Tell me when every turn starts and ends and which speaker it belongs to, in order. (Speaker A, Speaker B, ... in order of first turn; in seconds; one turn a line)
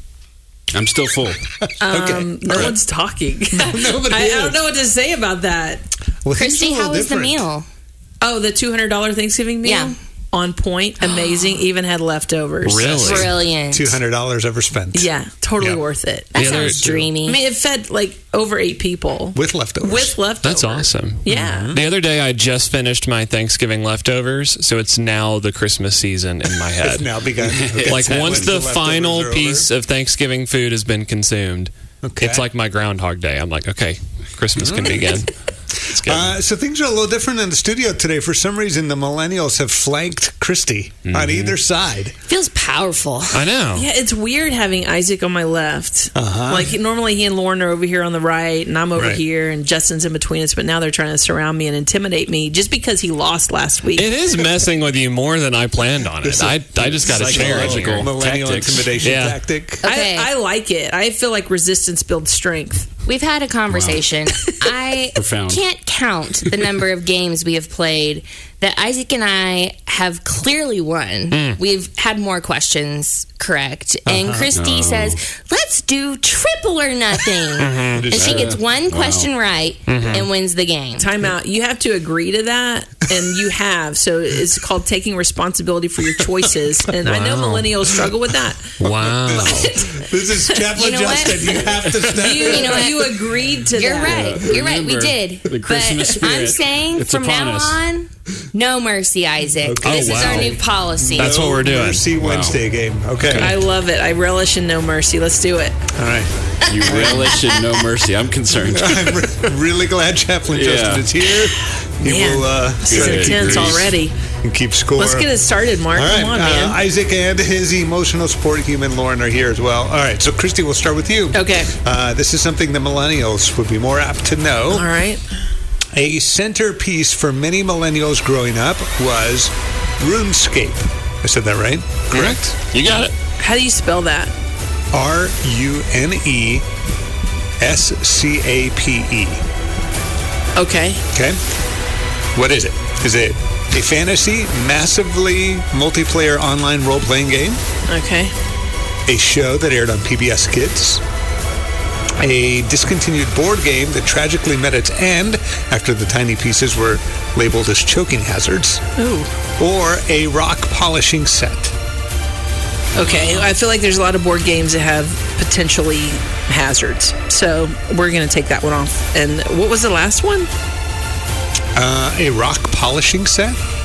Speaker A: 0.7-1.4
Speaker B: 1.8-5.8
Speaker C: 1.9-2.8
Speaker C: 3.5-4.6
Speaker C: 6.2-7.4
Speaker D: 6.3-7.7
Speaker B: 8.2-13.3
Speaker D: 9.6-10.0
Speaker D: 11.2-11.6
Speaker E: 12.6-13.3
Speaker D: 13.1-14.0
Speaker C: 13.7-15.1
Speaker B: 14.9-21.8
Speaker D: 16.3-17.4
Speaker C: 16.4-17.1
Speaker E: 16.4-16.8
Speaker C: 19.3-20.2
Speaker E: 20.4-27.1
Speaker C: 21.3-21.8
Speaker C: 26.8-29.7
Speaker A: 27.4-28.5
Speaker E: 27.8-36.3
Speaker C: 32.0-32.4
Speaker C: 34.6-35.1
Speaker C: 36.0-42.2
Speaker A: 41.0-41.6
Speaker D: 42.3-43.5
Speaker E: 43.3-43.9
Speaker B: 43.7-54.1
Speaker C: 46.1-46.7
Speaker C: 49.0-49.2
Speaker E: 53.9-58.1
Speaker C: 56.2-59.9
Speaker A: 56.8-58.9
Speaker E: 59.0-59.4
Speaker D: 59.8-60.3
Speaker B: 59.8-63.0
Speaker D: 63.0-81.1
Speaker A: 63.7-64.1
Speaker B: 64.4-64.7
Speaker A: 65.2-65.6
Speaker E: 71.3-71.6
Speaker C: 74.0-74.5
Speaker A: 74.5-75.2
Speaker E: 77.6-78.1
Speaker C: 77.9-78.6
Speaker A: 78.1-79.3
Speaker E: 79.9-80.3
Speaker B: 81.0-88.8
Speaker E: 87.0-87.7
Speaker E: 88.8-89.7
Speaker C: 88.8-93.0
Speaker D: 89.5-90.0
Speaker D: 90.7-101.4
Speaker B: 92.1-94.3
Speaker A: 94.0-97.8
Speaker C: 99.6-103.6
Speaker E: 99.8-100.6
Speaker E: 101.1-102.1
Speaker A: 102.2-102.6
Speaker E: 103.2-103.6
Speaker B: 103.3-105.8
Speaker C: 106.0-107.4
Speaker A: 106.7-109.5
Speaker D: 106.7-107.8
Speaker C: 108.7-113.9
Speaker A: 110.5-111.1
Speaker B: 112.0-114.2
Speaker A: 112.9-113.9
Speaker C: 114.4-115.3
Speaker B: 115.0-116.8
Speaker C: 115.9-124.9
Speaker B: 121.3-121.7
Speaker B: 124.7-125.2
Speaker C: 125.9-132.4
Speaker E: 132.1-133.1
Speaker A: 132.8-133.1
Speaker B: 133.4-134.3
Speaker C: 134.9-136.7
Speaker C: 137.6-139.4
Speaker B: 140.5-141.0
Speaker C: 141.1-141.4
Speaker C: 142.3-147.6
Speaker B: 147.9-148.3
Speaker C: 149.1-151.0
Speaker C: 152.2-158.8
Speaker B: 159.0-159.3
Speaker C: 159.6-161.7
Speaker A: 162.9-163.3
Speaker B: 162.9-170.5
Speaker C: 171.8-173.6